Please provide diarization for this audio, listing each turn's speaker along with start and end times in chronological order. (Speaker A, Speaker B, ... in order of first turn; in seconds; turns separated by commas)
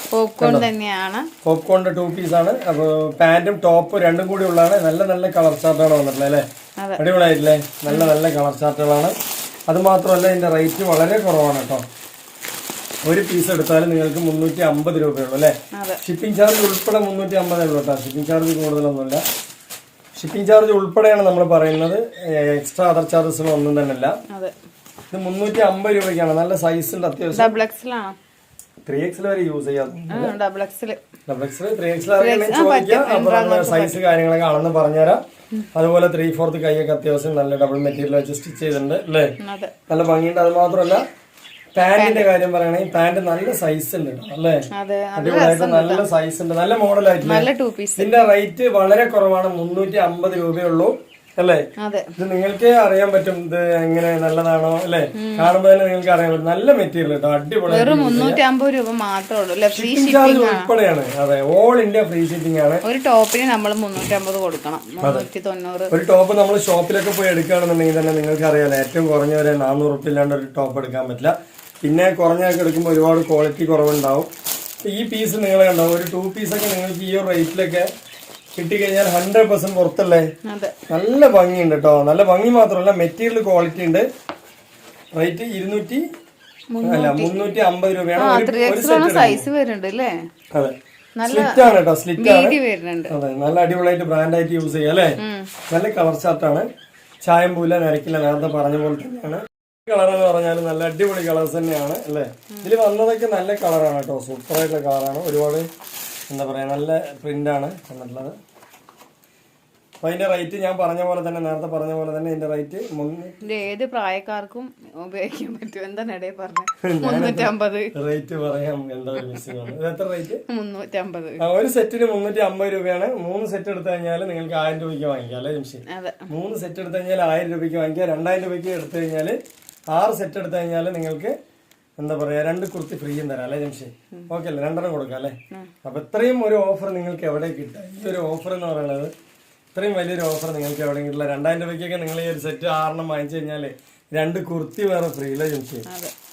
Speaker A: 0.1-1.3, Speaker B: 0.4-0.7, Speaker B: 1.4-6.4, Speaker B: 7.0-9.1, Speaker A: 7.9-8.1, Speaker B: 9.7-11.8, Speaker B: 13.1-19.2, Speaker A: 15.7-16.0, Speaker B: 20.1-24.2, Speaker A: 24.3-24.5, Speaker B: 25.1-27.6, Speaker A: 27.3-28.1, Speaker B: 28.9-30.3, Speaker A: 30.1-31.0, Speaker B: 31.3-35.2, Speaker A: 32.2-34.0, Speaker B: 35.7-39.3, Speaker A: 39.4-39.7, Speaker B: 39.9-41.0, Speaker B: 41.7-44.6, Speaker A: 42.0-42.3, Speaker A: 44.7-46.0, Speaker B: 45.2-47.5, Speaker A: 47.2-48.1, Speaker B: 48.0-51.6, Speaker A: 51.8-52.1, Speaker B: 52.2-58.4, Speaker A: 55.1-55.5, Speaker A: 57.7-60.7, Speaker B: 59.7-62.8, Speaker A: 62.8-65.9, Speaker B: 65.9-74.3, Speaker B: 74.8-77.9, Speaker B: 78.6-80.3, Speaker A: 80.4-80.7, Speaker B: 80.9-84.0, Speaker B: 85.1-86.0, Speaker A: 86.7-87.3, Speaker B: 86.8-89.4, Speaker A: 88.2-90.2, Speaker A: 91.2-93.1, Speaker B: 91.2-92.6, Speaker B: 93.1-95.2, Speaker A: 95.2-95.5, Speaker B: 95.7-96.7, Speaker B: 97.2-105.7, Speaker B: 106.3-108.4, Speaker B: 110.0-113.3, Speaker A: 113.4-117.9, Speaker B: 116.8-120.4, Speaker A: 119.2-119.7, Speaker A: 120.5-121.4, Speaker B: 121.4-129.4, Speaker A: 125.9-126.3, Speaker B: 129.9-131.3, Speaker B: 132.0-139.1, Speaker B: 139.7-145.8, Speaker A: 145.9-146.1